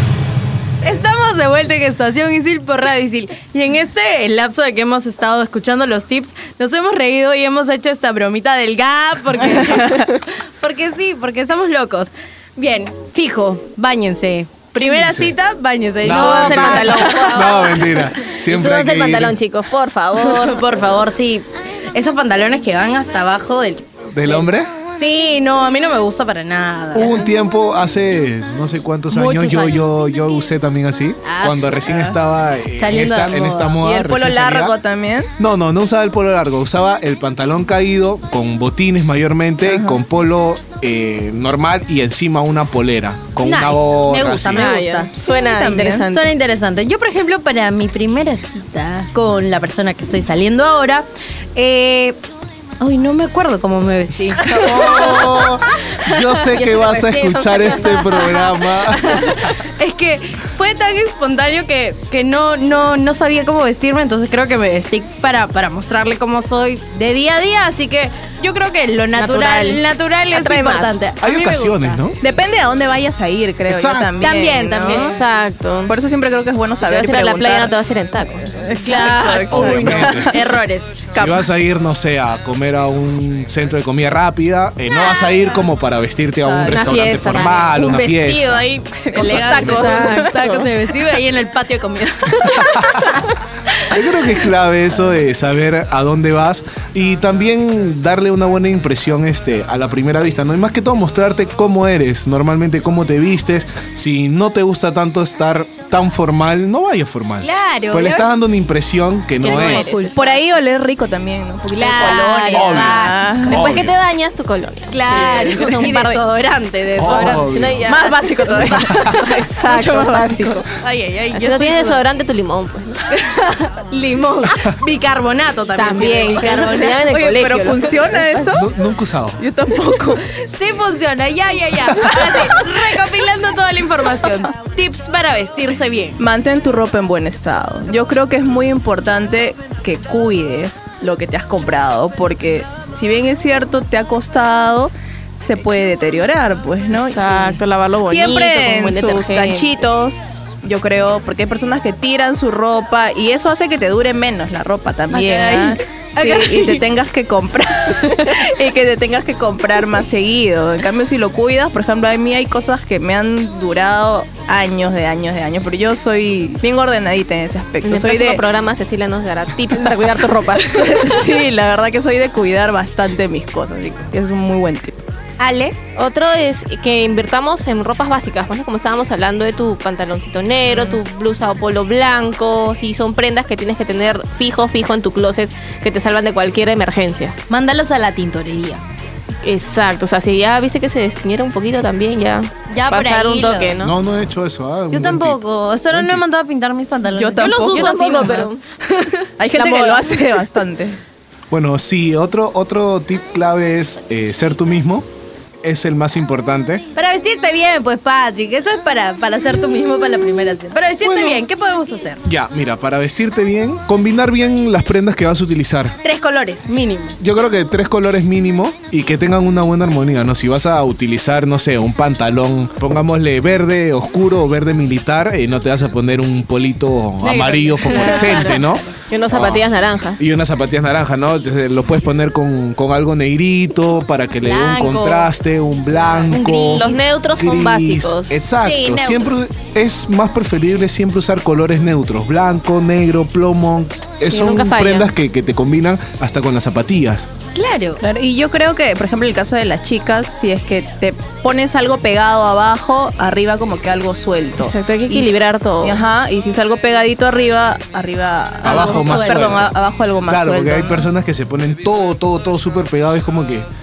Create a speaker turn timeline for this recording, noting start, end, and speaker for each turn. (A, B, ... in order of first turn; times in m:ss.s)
0:00.8-0:17.8 A
0:14.8-0:15.3 B
0:16.0-0:19.4 B
0:16.0-0:17.8 C
0:18.5-0:20.6 C
0:20.1-0:27.2 A
0:24.1-0:24.7 B
0:26.9-0:34.8 B
0:29.1-0:29.8 A
0:31.2-0:32.1 A
0:32.8-0:33.8 A
0:33.8-0:35.3 D
0:35.4-0:44.8 B
0:39.7-0:40.0 D
0:43.4-0:45.1 A
0:44.5-0:46.3 C
0:45.4-0:46.1 D
0:46.1-0:52.2 A
0:52.8-0:55.3 A
0:54.5-0:59.3 B
0:55.0-0:55.2 C
0:56.0-0:56.4 A
0:56.5-0:58.4 C
0:57.8-1:12.0 A
1:09.1-1:09.8 C
1:10.3-1:11.0 C
1:11.2-1:12.2 B
1:12.2-1:15.2 D
1:13.7-1:14.2 B
1:14.2-1:15.1 A
1:14.9-1:15.9 C
1:15.8-1:17.7 D
1:16.8-1:18.6 C
1:18.6-1:20.4 D
1:18.8-1:21.0 A
1:19.5-1:20.4 B
1:21.1-1:21.5 D
1:21.1-1:28.7 B
1:25.0-1:25.4 A
1:26.4-1:26.8 D
1:26.7-1:28.1 C
1:27.8-1:33.0 A
1:29.0-1:30.6 D
1:29.2-1:30.6 C
1:29.2-1:29.9 B
1:32.4-1:33.2 B
1:33.9-1:50.0 B
1:47.4-1:48.3 A
1:49.4-1:50.2 C
1:49.4-1:50.4 A
1:50.1-1:53.6 D
1:51.7-1:53.6 A
1:52.5-1:53.9 B
1:53.4-1:56.2 C
1:54.9-1:59.2 A
1:57.0-1:57.9 B
1:57.0-1:58.1 C
1:57.8-2:00.6 D
1:59.0-2:00.7 C
2:00.7-2:02.0 A
2:01.3-2:03.0 C
2:03.1-2:07.5 A
2:05.7-2:08.2 C
2:07.1-2:08.7 D
2:08.4-2:09.4 B
2:09.4-2:10.2 D
2:10.4-2:16.2 A
2:16.2-2:48.4 D
2:26.9-2:29.7 C
2:35.1-2:36.8 A
2:47.8-2:51.2 C
2:49.7-2:55.0 D
2:55.4-2:55.8 A
2:56.0-3:07.3 C
3:00.7-3:01.0 D
3:07.5-3:08.8 A
3:09.4-3:13.9 C
3:12.7-3:13.8 A
3:13.8-3:16.2 B
3:14.9-3:19.0 A
3:17.1-3:18.4 D
3:17.7-3:18.6 C
3:19.4-3:21.0 D
3:19.6-3:20.1 A
3:21.5-3:25.0 B
3:25.6-3:26.8 B
3:27.0-3:32.2 A
3:31.0-3:31.4 B
3:32.2-3:36.0 B
3:36.0-3:37.2 A
3:37.2-3:49.6 B
3:47.2-3:48.6 A
3:47.9-3:50.2 C
3:50.2-4:07.3 B
3:54.4-3:55.3 A
3:56.0-3:57.0 A
3:56.7-3:58.3 C
3:58.6-3:59.4 A
4:04.3-4:05.1 C
4:07.5-4:08.0 A
4:08.0-4:21.1 D
4:14.6-4:16.0 C
4:18.6-4:23.7 B
4:18.6-4:19.6 A